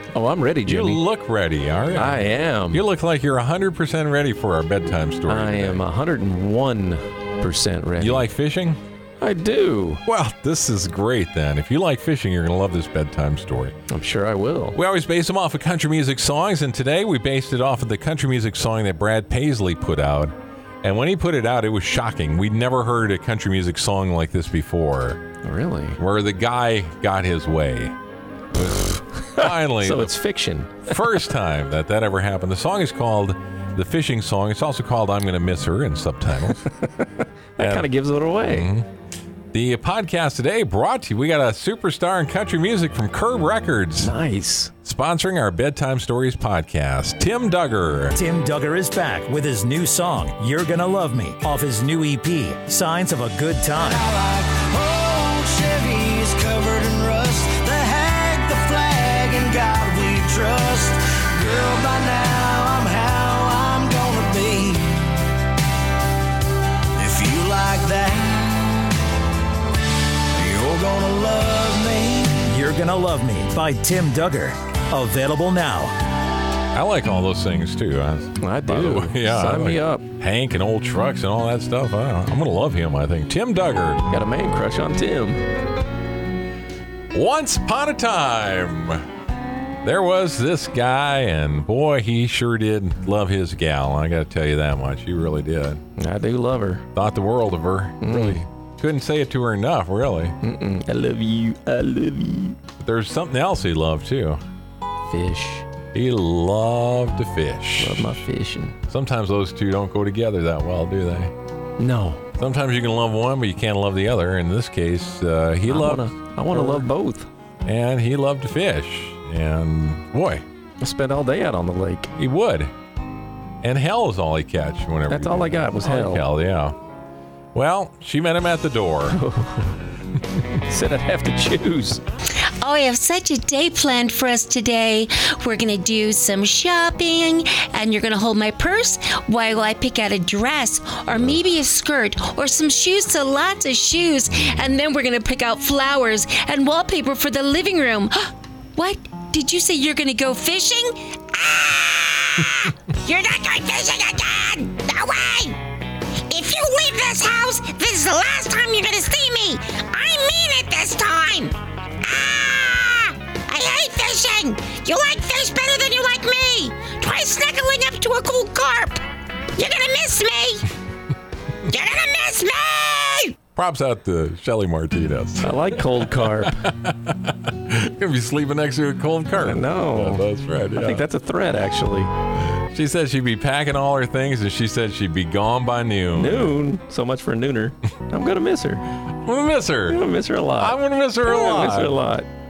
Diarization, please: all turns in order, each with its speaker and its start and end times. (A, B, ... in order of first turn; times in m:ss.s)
0:00.1-0:01.0 A
0:00.6-0:05.8 B
0:01.9-0:02.8 A
0:05.3-0:08.3 A
0:08.0-0:08.8 B
0:09.2-0:10.0 A
0:10.0-0:13.7 B
0:13.9-0:14.8 A
0:14.7-0:25.2 B
0:25.4-0:26.0 A
0:26.0-0:27.9 B
0:28.5-0:30.2 B
0:29.3-0:31.0 A
0:30.8-0:36.6 B
0:37.6-0:38.7 A
0:37.6-0:37.9 B
0:38.4-0:38.8 B
0:39.5-0:44.1 B
0:44.0-0:44.7 A
0:44.8-0:48.2 B
0:48.1-0:54.1 C
0:53.9-1:05.1 D
1:07.0-1:08.8 D
1:10.3-1:12.4 D
1:12.3-1:15.9 C
1:16.7-1:24.0 B
1:18.4-1:20.0 A
1:24.1-1:25.4 A
1:27.1-1:29.0 B
1:29.8-1:35.8 B
1:36.0-1:36.8 A
1:36.9-1:40.3 B
1:38.0-1:38.4 A
1:40.4-1:42.6 A
1:42.8-1:44.4 B
1:45.1-1:45.6 A
1:45.9-1:48.2 B
1:47.8-1:48.7 A
1:48.9-1:51.3 B
1:51.8-1:52.2 A
1:52.4-1:56.8 B
1:55.6-1:57.3 A
1:57.6-2:00.4 B
2:00.8-2:02.1 A
2:02.2-2:02.7 B
2:03.6-2:06.8 B
2:05.1-2:06.2 A
2:07.5-2:09.2 B
2:09.1-2:09.7 A
2:10.6-2:12.0 A
2:12.6-2:35.6 E
2:36.3-2:49.0 E
2:49.6-2:50.7 E
2:51.7-2:53.4 E
2:53.6-2:55.5 B
2:55.4-2:56.6 A
2:56.2-3:01.0 B
2:59.4-3:02.1 A
3:02.7-3:06.6 B
3:06.1-3:08.8 A
3:09.2-3:10.0 B
3:09.9-3:12.3 A
3:10.6-3:12.0 B